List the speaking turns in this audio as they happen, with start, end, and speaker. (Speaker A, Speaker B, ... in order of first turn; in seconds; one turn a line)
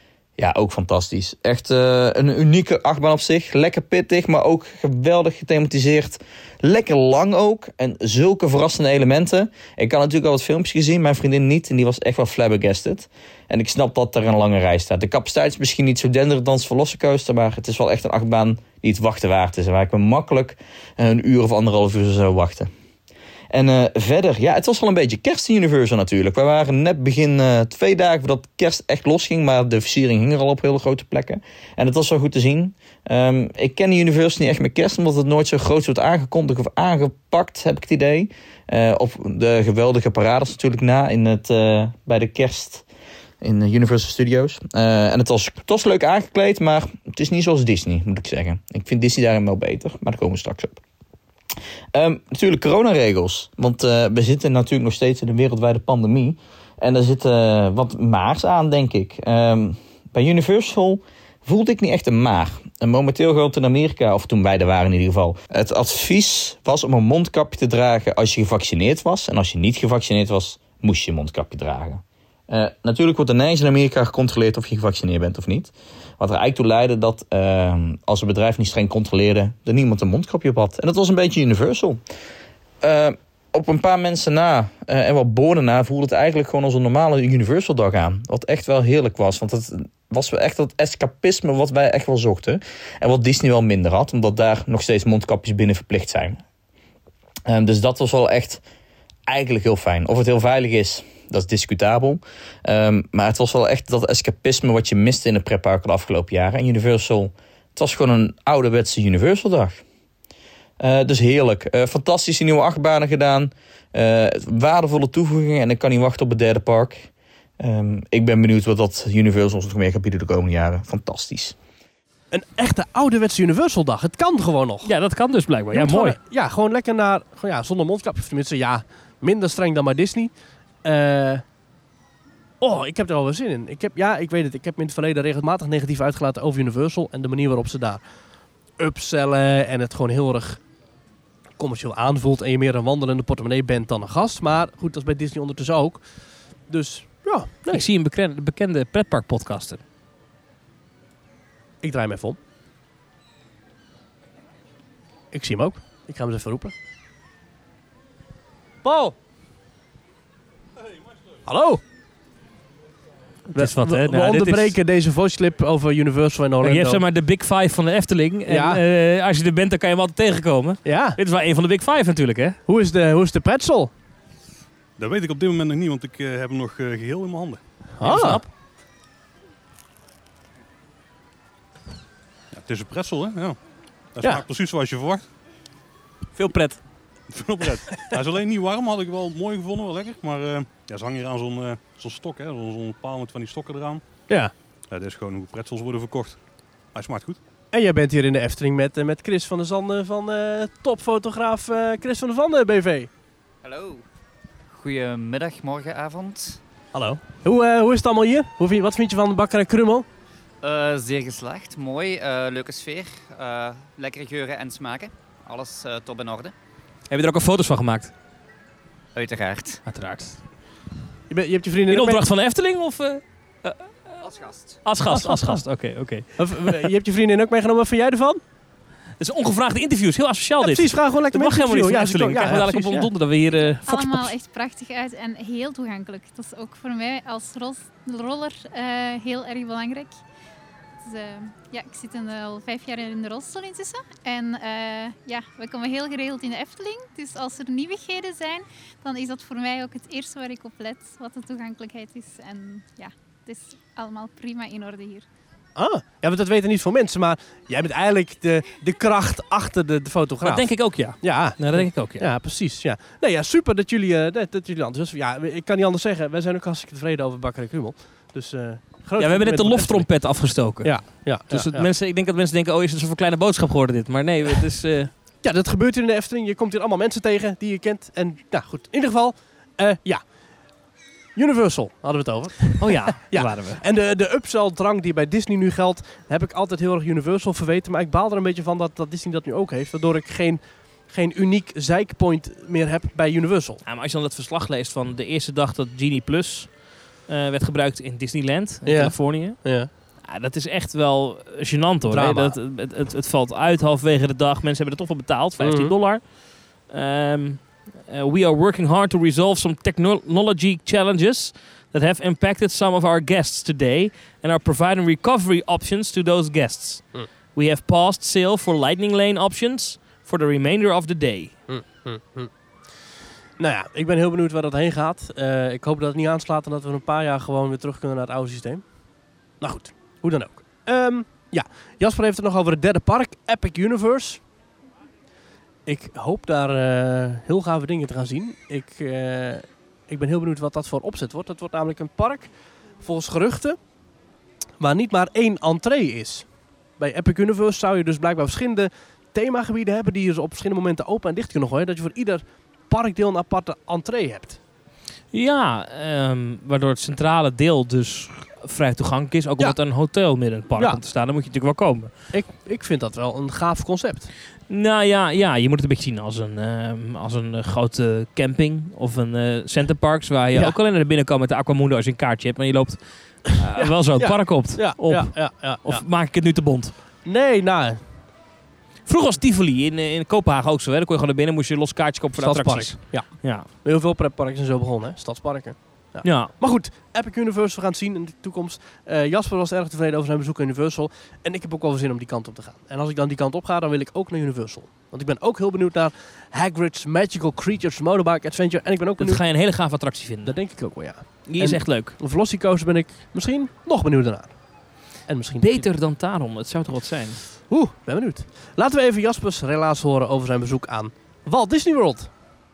Speaker A: 0.4-22.7
Speaker A: 23.5-42.9
Speaker A: 43.4-50.8
Speaker A: 51.9-82.0
Speaker A: 82.8-96.4
Speaker A: 97.5-98.6
Speaker A: 99.3-109.8
Speaker A: 110.8-117.1
Speaker A: 117.6-121.5
Speaker B: 122.3-124.9
Speaker C: 124.8-126.2
Speaker B: 125.7-130.3
Speaker B: 130.8-131.4
Speaker B: 132.6-138.0
Speaker B: 138.8-140.6
Speaker B: 141.6-146.0
Speaker B: 146.7-147.9
Speaker C: 147.7-149.8
Speaker B: 151.8-152.4
Speaker B: 155.3-156.7
Speaker B: 158.8-159.1
Speaker B: 161.5-161.8
Speaker C: 163.5-164.8
Speaker B: 163.5-167.0
Speaker C: 166.6-172.6
Speaker B: 168.5-168.8
Speaker B: 170.8-171.2
Speaker B: 172.7-173.9
Speaker D: 175.0-177.6
Speaker B: 178.0-178.4
Speaker C: 178.0-178.5
Speaker D: 182.5-183.6
Speaker D: 184.2-185.2
Speaker B: 186.4-186.8
Speaker D: 187.3-194.0
Speaker D: 194.9-196.4
Speaker D: 196.9-197.4
Speaker B: 197.7-203.1
Speaker E: 203.6-204.0
Speaker E: 204.7-206.6
Speaker B: 206.9-210.1
Speaker E: 210.6-216.5
Speaker C: 217.1-218.1
Speaker E: 219.2-219.8
Speaker C: 219.8-220.4
Speaker B: 221.3-222.2
Speaker C: 221.9-223.9
Speaker E: 224.2-224.8
Speaker C: 224.8-226.7
Speaker B: 225.1-225.6
Speaker B: 226.4-228.4
Speaker C: 229.2-234.3
Speaker B: 230.6-233.1
Speaker F: 233.9-240.2
Speaker F: 241.0-255.2
Speaker B: 255.8-270.2
Speaker C: 260.4-262.3
Speaker C: 269.2-275.1
Speaker B: 270.8-271.9
Speaker B: 275.4-280.2
Speaker B: 281.4-293.8
Speaker C: 282.8-283.8
Speaker C: 293.9-299.6
Speaker B: 298.9-299.9
Speaker C: 300.2-306.3
Speaker B: 302.1-302.6
Speaker B: 305.6-305.9
Speaker C: 306.9-317.0
Speaker C: 317.6-321.5
Speaker B: 321.7-322.5
Speaker B: 323.6-328.8
Speaker B: 329.6-334.4
Speaker B: 335.9-343.8
Speaker B: 344.8-346.5
Speaker B: 347.0-354.6
Speaker C: 355.3-362.1
Speaker B: 362.3-364.3
Speaker C: 364.7-376.9
Speaker B: 373.8-376.1
Speaker B: 377.2-378.0
Speaker C: 379.1-383.7
Speaker B: 382.4-399.4
Speaker C: 386.2-386.5
Speaker C: 399.2-400.6
Speaker B: 400.4-404.5
Speaker C: 401.5-402.2
Speaker B: 405.3-405.9
Speaker C: 405.6-407.4
Speaker B: 407.7-412.3